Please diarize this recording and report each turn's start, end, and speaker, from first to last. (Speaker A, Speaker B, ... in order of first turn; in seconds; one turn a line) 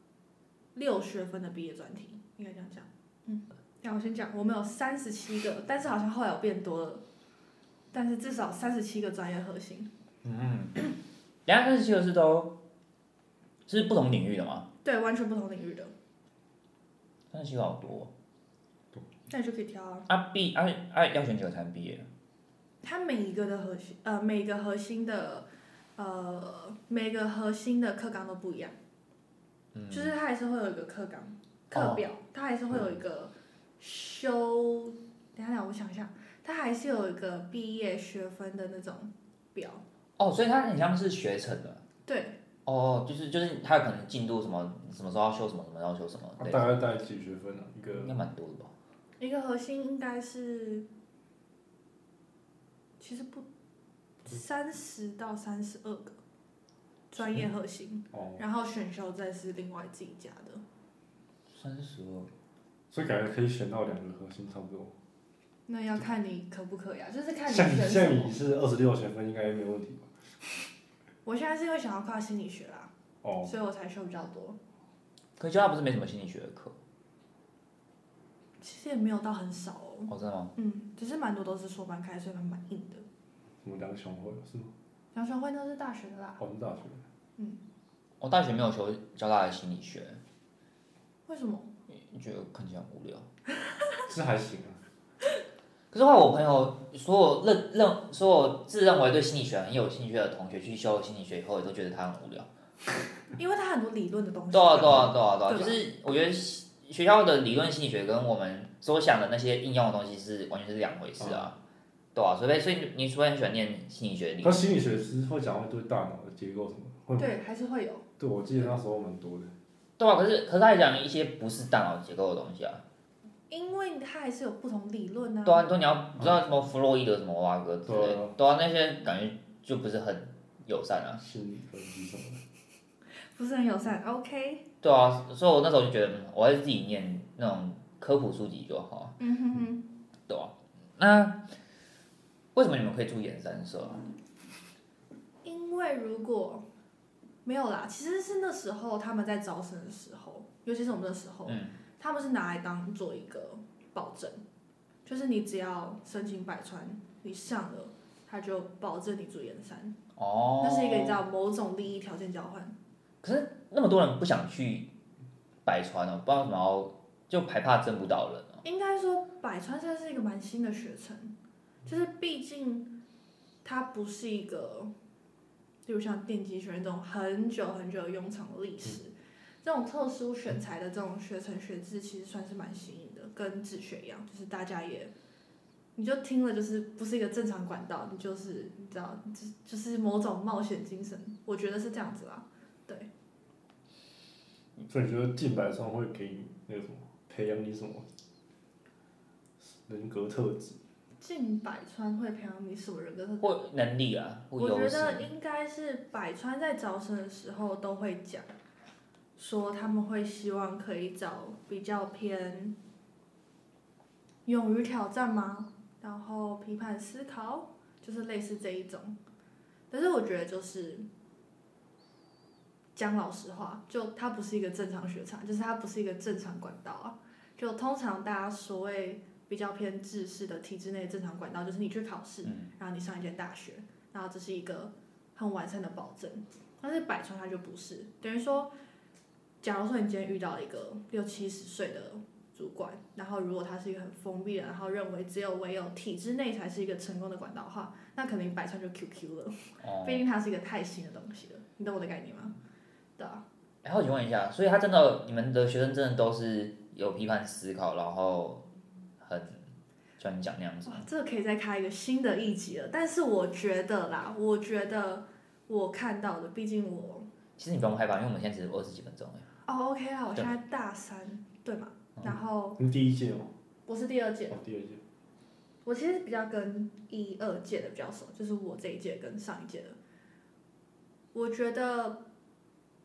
Speaker A: 0.8-7.0
Speaker A: 7.9-9.9
Speaker B: 10.2-10.9
Speaker B: 11.5-12.6
Speaker B: 13.7-14.7
Speaker A: 14.8-15.9
Speaker B: 17.3-18.1
Speaker A: 19.3-20.1
Speaker B: 20.1-22.1
Speaker A: 22.8-28.8
Speaker B: 29.7-30.1
Speaker A: 29.9-39.8
Speaker B: 31.7-32.0
Speaker B: 40.2-41.8
Speaker A: 42.1-42.4
Speaker B: 42.7-46.7
Speaker C: 46.4-48.2
Speaker B: 48.0-48.7
Speaker A: 49.2-50.9
Speaker A: 53.0-53.5
Speaker A: 54.2-56.2
Speaker A: 57.1-60.6
Speaker B: 61.5-62.3
Speaker C: 62.9-64.9
Speaker A: 65.7-68.3
Speaker C: 67.5-70.1
Speaker A: 71.2-72.9
Speaker C: 73.2-73.5
Speaker A: 73.4-74.6
Speaker B: 75.4-76.8
Speaker A: 78.6-83.0
Speaker B: 80.1-80.5
Speaker C: 83.6-84.7
Speaker A: 85.1-86.4
Speaker C: 86.4-87.0
Speaker B: 88.2-90.2
Speaker A: 91.3-91.7
Speaker B: 91.9-93.3
Speaker C: 94.1-94.8
Speaker B: 95.9-102.5
Speaker A: 103.4-105.8
Speaker B: 104.5-111.6
Speaker B: 112.2-114.7
Speaker C: 114.4-117.3
Speaker A: 117.2-118.0
Speaker C: 118.2-119.5
Speaker B: 120.0-122.8
Speaker A: 123.5-125.7
Speaker B: 125.5-131.2
Speaker C: 127.9-128.3
Speaker C: 131.2-132.4
Speaker A: 133.3-134.7
Speaker B: 134.8-139.2
Speaker A: 139.2-139.8
Speaker B: 140.3-141.6
Speaker B: 142.6-144.1
Speaker A: 145.4-146.7
Speaker A: 147.4-154.4
Speaker B: 151.5-151.8
Speaker A: 155.1-160.0
Speaker B: 160.2-161.2
Speaker A: 160.6-162.8
Speaker B: 163.2-164.9
Speaker B: 165.7-168.6
Speaker A: 168.6-171.3
Speaker A: 171.9-172.9
Speaker A: 173.6-174.9
Speaker A: 175.9-185.1
Speaker A: 186.0-193.1
Speaker C: 194.8-198.1
Speaker C: 199.6-200.8
Speaker A: 201.2-203.5
Speaker B: 203.4-205.3
Speaker A: 204.6-208.5
Speaker A: 209.4-212.8
Speaker A: 214.5-219.2
Speaker A: 219.9-221.1
Speaker A: 223.0-238.7
Speaker B: 232.4-232.7
Speaker A: 239.6-252.6
Speaker B: 249.8-250.2
Speaker A: 253.2-253.4
Speaker B: 253.8-258.6
Speaker B: 259.2-259.6
Speaker B: 260.2-261.1
Speaker A: 260.9-267.3
Speaker B: 267.6-269.5
Speaker A: 269.6-272.8
Speaker C: 272.8-273.5
Speaker A: 273.9-274.6
Speaker C: 274.5-275.0
Speaker A: 275.9-280.0
Speaker A: 281.3-282.2